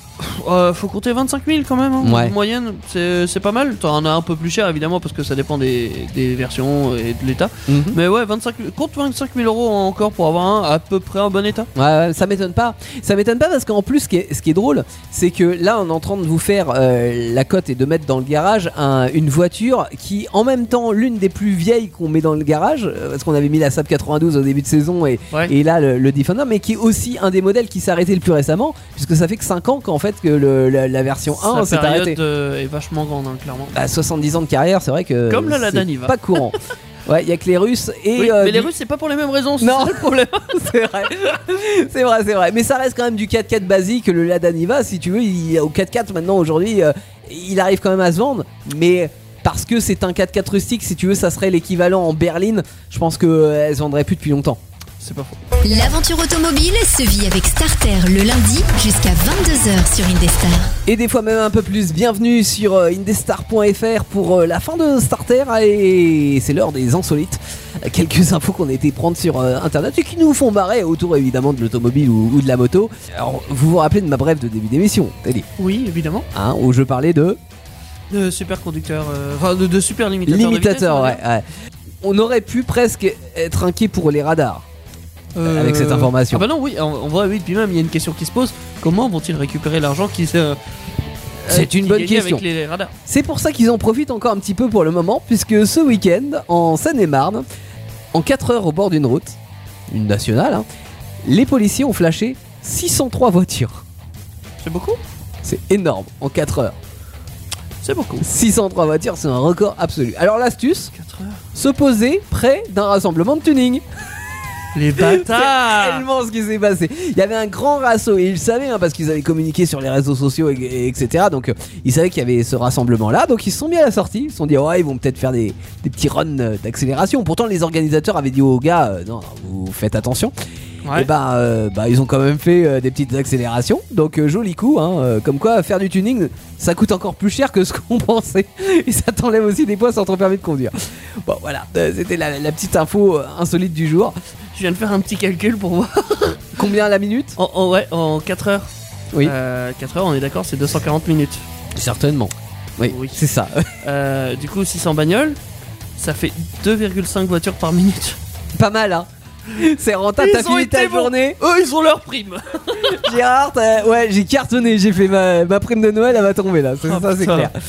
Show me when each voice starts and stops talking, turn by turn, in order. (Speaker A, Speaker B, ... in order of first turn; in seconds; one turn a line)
Speaker A: 0.2-11.7
Speaker B: 2.0-2.4
Speaker B: 7.7-8.0
Speaker B: 11.8-32.2
Speaker A: 31.3-33.8
Speaker B: 33.7-38.7
Speaker A: 35.3-36.5
Speaker A: 38.2-40.7
Speaker B: 39.6-54.6
Speaker A: 55.0-55.4
Speaker C: 55.6-60.7
Speaker B: 60.9-75.5
Speaker A: 75.6-76.3
Speaker B: 76.3-77.4
Speaker A: 78.1-81.2
Speaker B: 80.3-81.5
Speaker B: 82.0-84.6
Speaker A: 85.3-90.6
Speaker B: 85.4-86.4
Speaker B: 91.5-92.4
Speaker A: 91.5-92.9
Speaker B: 93.1-97.5
Speaker B: 98.1-99.4
Speaker B: 99.9-100.7
Speaker B: 101.2-103.8
Speaker A: 104.6-105.0
Speaker B: 105.4-106.8
Speaker A: 107.8-108.3
Speaker B: 108.2-110.9
Speaker A: 110.9-111.4
Speaker B: 111.5-113.8
Speaker A: 114.8-116.1
Speaker B: 115.0-130.3
Speaker A: 130.8-131.1
Speaker B: 130.9-144.2
Speaker A: 144.5-146.6
Speaker B: 146.6-147.4
Speaker A: 147.4-148.7
Speaker A: 149.2-151.4
Speaker B: 151.8-153.7
Speaker A: 152.9-153.2
Speaker A: 153.8-155.4
Speaker A: 156.0-158.2
Speaker B: 158.6-161.4
Speaker A: 160.2-163.2
Speaker B: 162.8-167.6
Speaker A: 166.8-167.5